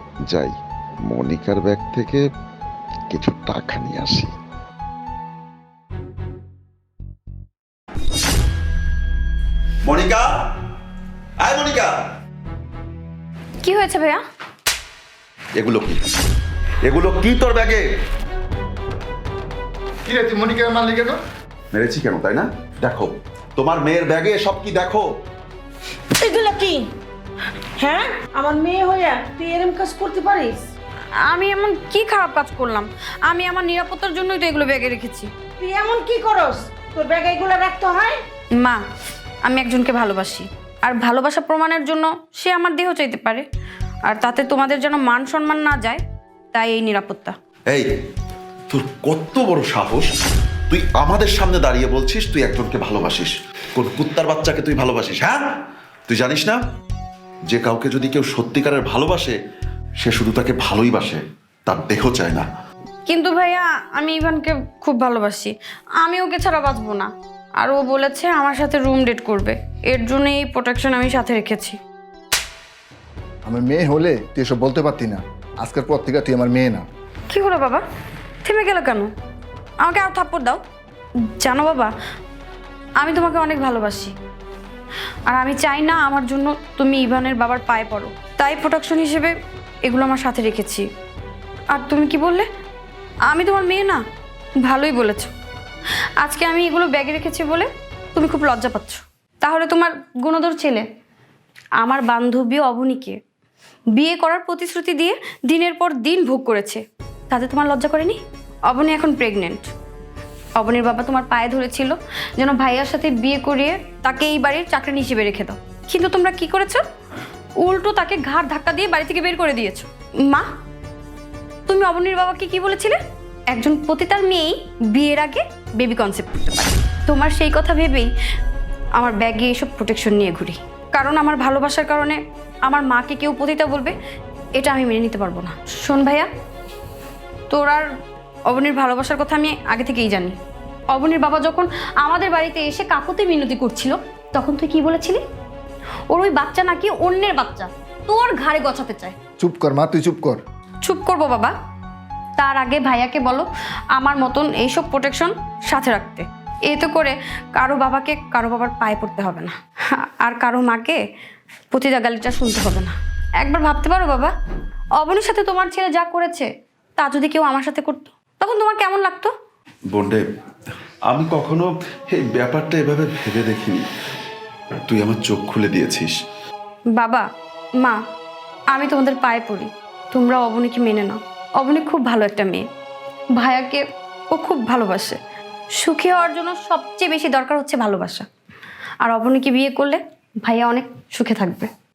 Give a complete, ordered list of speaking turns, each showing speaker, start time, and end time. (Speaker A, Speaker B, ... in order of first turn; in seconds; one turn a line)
Speaker A: 0.3-0.5
Speaker A: 1.1-2.3
Speaker A: 3.1-4.3
Speaker B: 9.8-10.3
Speaker B: 11.4-11.9
Speaker C: 13.6-14.2
Speaker B: 15.6-16.0
Speaker B: 16.9-17.8
Speaker D: 20.1-21.2
Speaker B: 21.7-25.0
Speaker E: 26.2-26.8
Speaker E: 27.8-30.6
Speaker C: 31.3-35.3
Speaker E: 35.6-38.2
Speaker C: 39.5-43.4
Speaker C: 44.1-46.0
Speaker C: 46.5-47.3
Speaker B: 48.7-50.1
Speaker B: 50.7-55.4
Speaker B: 56.1-56.6
Speaker B: 57.5-59.4
Speaker B: 60.0-62.5
Speaker C: 63.1-71.8
Speaker D: 73.5-76.8
Speaker C: 77.3-77.8
Speaker C: 78.4-79.1
Speaker C: 79.8-80.6
Speaker C: 81.4-81.9
Speaker C: 83.0-84.1
Speaker C: 85.3-89.3
Speaker C: 89.8-90.8
Speaker C: 91.7-92.5
Speaker C: 93.3-94.0
Speaker C: 94.6-95.3
Speaker C: 96.2-100.8
Speaker C: 101.8-103.2
Speaker C: 104.0-109.7
Speaker C: 110.6-116.8
Speaker C: 117.6-120.5
Speaker C: 121.7-123.0
Speaker C: 123.5-128.1
Speaker C: 129.0-133.9
Speaker C: 134.6-136.3
Speaker C: 137.5-137.9
Speaker C: 138.5-140.3
Speaker C: 140.9-145.2
Speaker C: 146.1-149.1
Speaker D: 149.4-150.4
Speaker C: 150.8-151.5
Speaker C: 152.4-161.0
Speaker C: 161.7-164.3
Speaker C: 165.0-169.3
Speaker B: 169.9-170.2
Speaker B: 171.1-173.8
Speaker B: 174.9-176.1
Speaker C: 176.9-177.2
Speaker C: 178.7-182.7
Speaker C: 183.4-185.2
Speaker C: 185.8-188.3
Speaker C: 189.0-191.7